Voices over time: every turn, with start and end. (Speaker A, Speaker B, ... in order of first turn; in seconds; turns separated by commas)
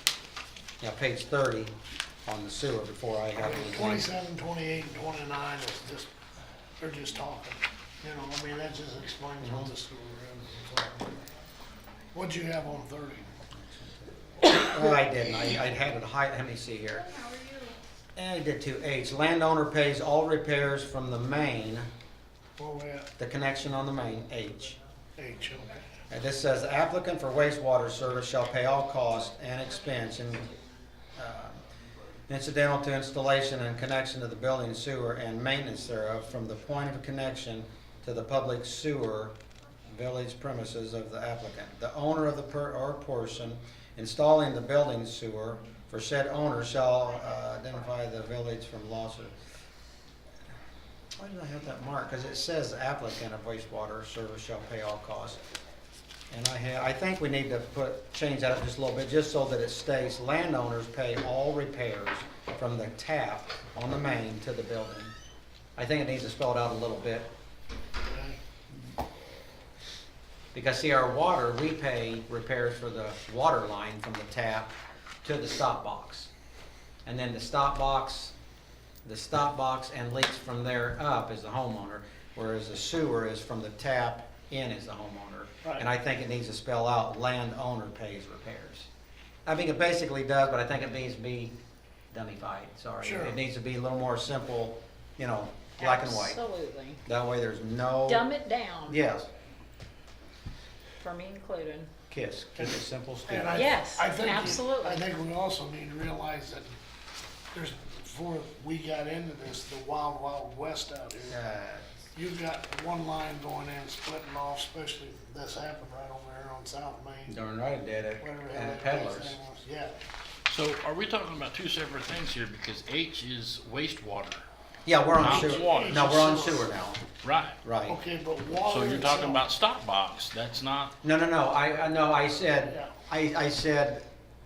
Speaker A: 0.8-1.7, Speaker A: 2.2-4.1, Speaker B: 3.4-6.1, Speaker B: 6.8-11.2, Speaker A: 9.4-9.7, Speaker B: 12.1-13.3, Speaker A: 13.5-17.1, Speaker A: 18.2-21.9, Speaker B: 22.6-23.1, Speaker A: 23.2-24.8, Speaker B: 25.2-25.8, Speaker A: 26.1-30.5, Speaker A: 31.2-31.6, Speaker A: 32.3-39.4, Speaker A: 39.9-49.3, Speaker A: 51.2-55.4, Speaker A: 56.3-65.1, Speaker A: 65.8-67.3, Speaker B: 68.0-68.4, Speaker A: 70.5-76.3, Speaker A: 77.0-78.3, Speaker A: 79.0-88.9, Speaker A: 89.5-91.5, Speaker A: 92.1-96.4, Speaker B: 93.0-93.4, Speaker C: 95.8-97.0, Speaker A: 97.0-98.3, Speaker C: 98.1-99.0, Speaker A: 98.9-99.3, Speaker C: 101.0-101.9, Speaker A: 102.1-103.6, Speaker B: 103.3-106.7, Speaker C: 103.5-105.0, Speaker B: 107.5-111.4, Speaker A: 111.3-111.9, Speaker B: 112.1-117.3, Speaker A: 117.3-119.4, Speaker B: 118.2-119.9, Speaker D: 120.5-124.5, Speaker A: 124.9-127.0, Speaker D: 125.2-126.1, Speaker B: 125.2-126.7, Speaker D: 127.2-127.6, Speaker A: 127.6-128.0, Speaker B: 127.9-129.4, Speaker D: 128.7-130.9, Speaker A: 131.0-134.1